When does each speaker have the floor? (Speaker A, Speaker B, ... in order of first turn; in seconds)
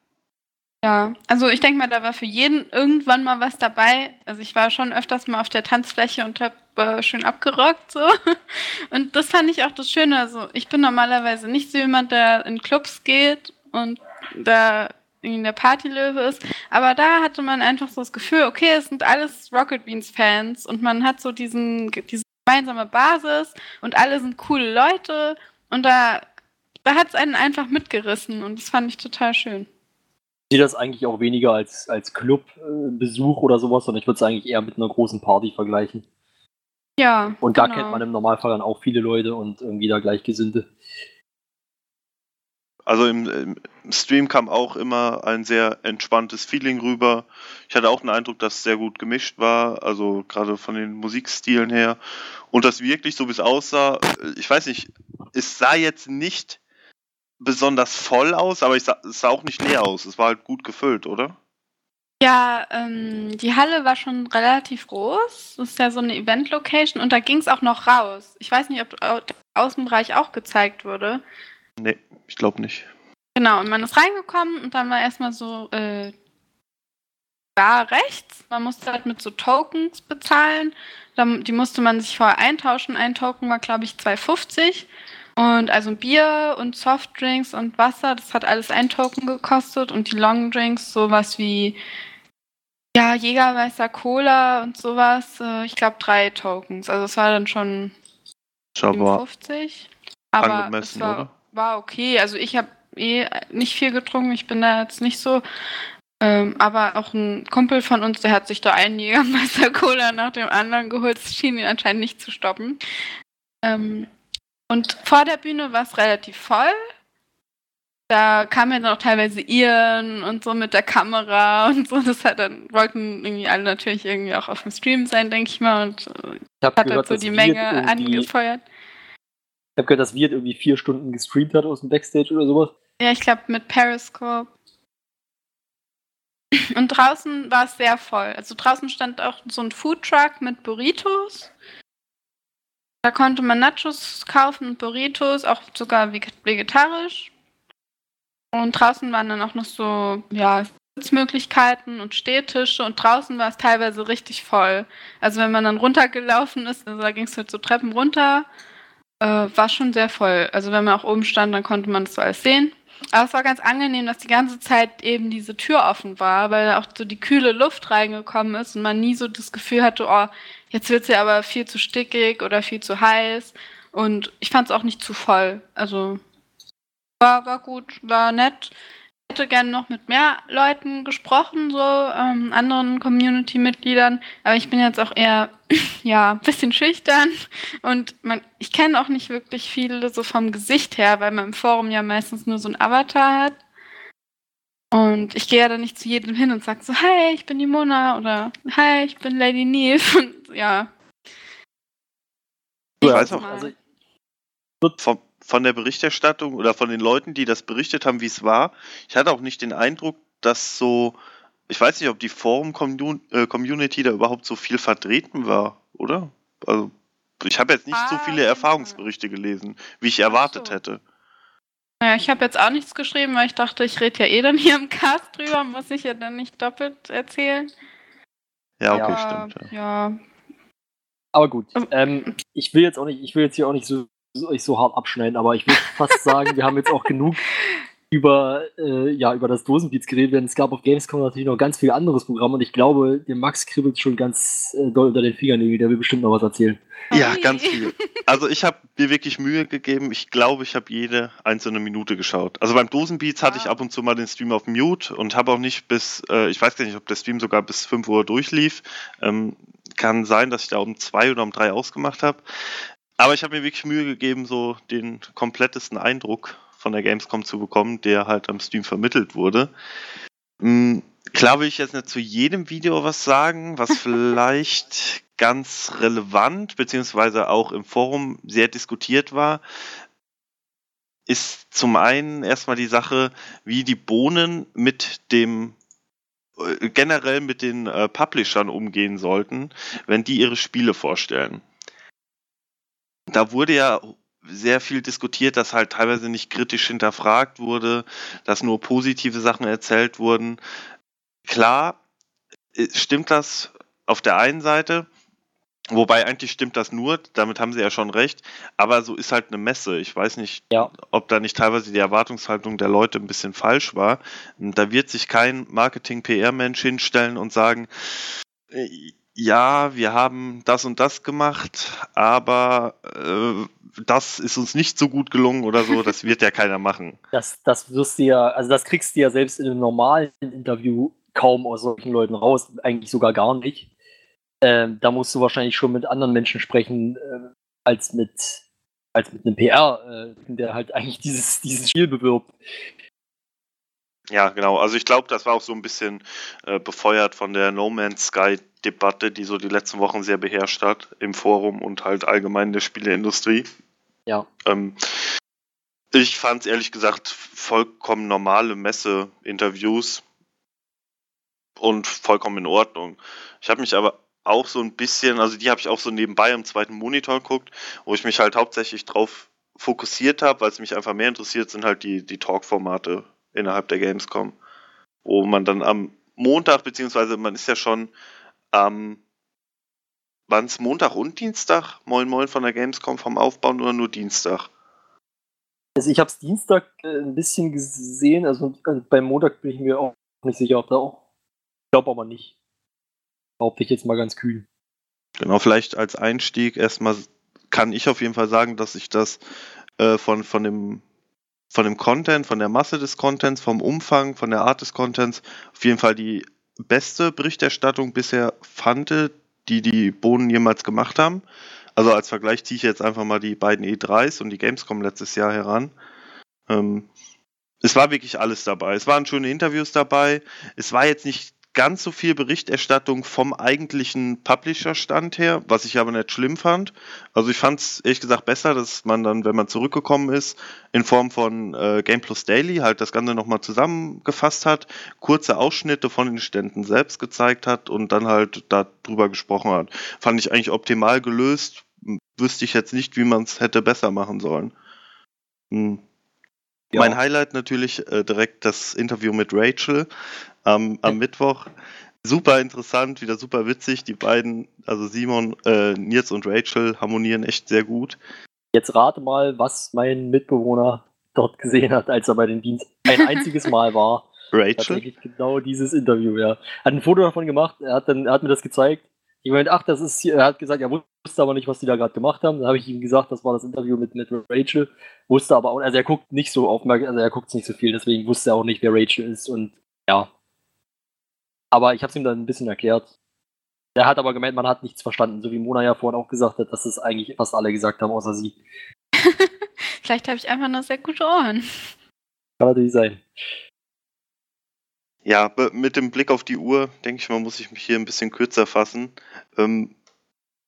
Speaker A: 0.8-26.2, 26.8-29.7, 37.0-38.0, 62.2-71.2, 73.3-76.1, 77.6-91.8, 92.9-97.9, 98.9-105.4, 106.2-112.8, 113.6-114.1, 114.7-116.8, 118.1-128.6, 133.0-134.5, 136.7-141.5, 143.0-147.3, 148.5-158.4, 159.2-176.2, 177.2-178.7, 179.3-193.6, 194.9-200.9, 203.0-203.7, 217.9-219.0, 220.3-220.8, 222.0-227.7, 229.0-230.2, 247.1-248.0, 253.4-253.8, 489.2-489.5, 490.0-491.6
Speaker B: 30.5-36.0, 37.4-40.7, 126.6-128.3, 129.8-132.7, 203.0-203.7, 228.9-229.2, 231.3-237.4, 238.1-246.8, 327.3-333.9, 334.6-338.6, 339.1-342.5, 386.0-391.2, 391.9-392.5, 393.6-394.6, 446.9-447.2, 458.7-480.3, 481.7-483.1, 483.9-488.5, 492.6-493.2
Speaker C: 42.9-52.0, 52.5-56.6, 57.4-61.4, 71.8-72.9, 98.8-99.2, 100.4-101.3, 203.0-203.5, 205.0-211.2, 211.7-221.0, 228.8-229.7, 247.1-262.4, 263.2-269.7, 270.6-279.6, 281.3-285.8, 286.6-291.6, 293.3-300.6, 301.5-302.0, 302.7-305.1, 305.9-327.2, 344.3-353.7, 354.6-355.0, 356.1-360.2, 361.8-374.5, 375.2-378.1, 378.7-379.2, 380.5-384.7, 395.4-399.4, 400.0-401.0, 401.7-411.4, 411.9-415.9, 416.7-417.1, 417.8-444.7, 445.7-446.0, 446.9-450.1, 450.6-451.7, 452.2-458.2, 464.5-465.0, 495.2-499.9